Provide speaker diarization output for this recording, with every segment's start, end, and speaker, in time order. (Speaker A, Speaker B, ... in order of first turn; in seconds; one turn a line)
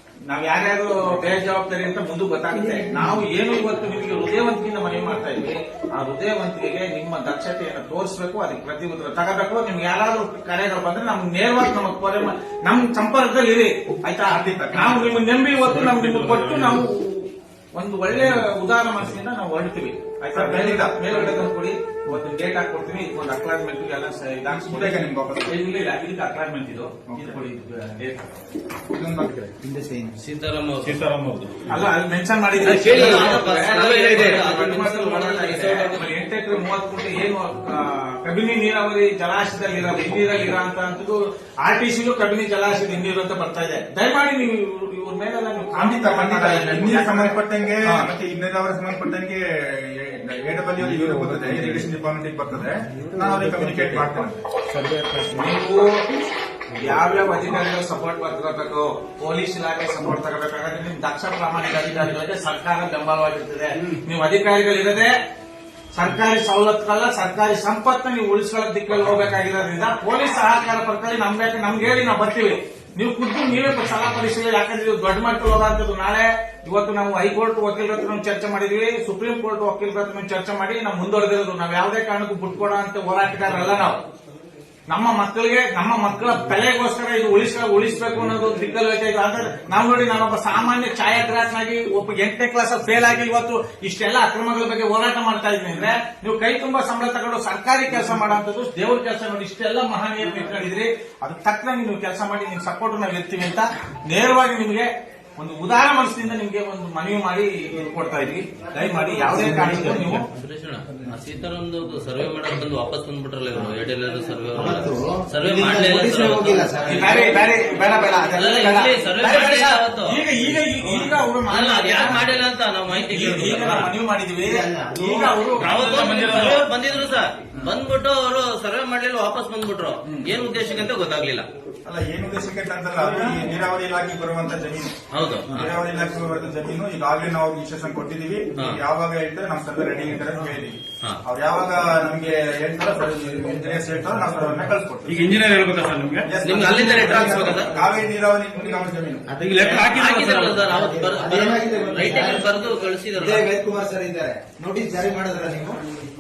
Speaker A: 0.3-28.3
Speaker B: 14.2-15.2
Speaker C: 15.5-16.8
Speaker B: 20.3-21.2
Speaker B: 24.5-25.5
Speaker B: 27.1-27.4
Speaker B: 28.9-29.5
Speaker D: 29.6-30.2
Speaker E: 30.2-31.0
Speaker C: 30.8-31.7
Speaker A: 31.6-48.1
Speaker E: 32.6-36.1
Speaker B: 45.7-54.4
Speaker C: 50.8-51.9
Speaker C: 53.1-54.1
Speaker C: 54.7-55.5
Speaker A: 55.3-56.0
Speaker A: 56.7-65.1
Speaker A: 65.9-84.0
Speaker A: 84.9-110.2
Speaker D: 109.1-110.2
Speaker E: 110.2-117.1
Speaker D: 114.5-117.4
Speaker A: 116.9-122.3
Speaker E: 118.3-120.2
Speaker E: 121.5-123.9
Speaker A: 122.9-126.7
Speaker D: 124.4-125.4
Speaker E: 125.6-131.5
Speaker C: 126.0-126.4
Speaker A: 130.1-130.3
Speaker B: 131.8-134.9
Speaker E: 135.1-135.7
Speaker B: 135.5-145.4
Speaker C: 145.0-147.6
Speaker B: 146.2-150.0
Speaker E: 146.4-147.7
Speaker D: 149.3-150.0
Speaker C: 149.4-150.6
Speaker E: 149.8-153.5
Speaker D: 150.5-152.5
Speaker D: 153.2-155.8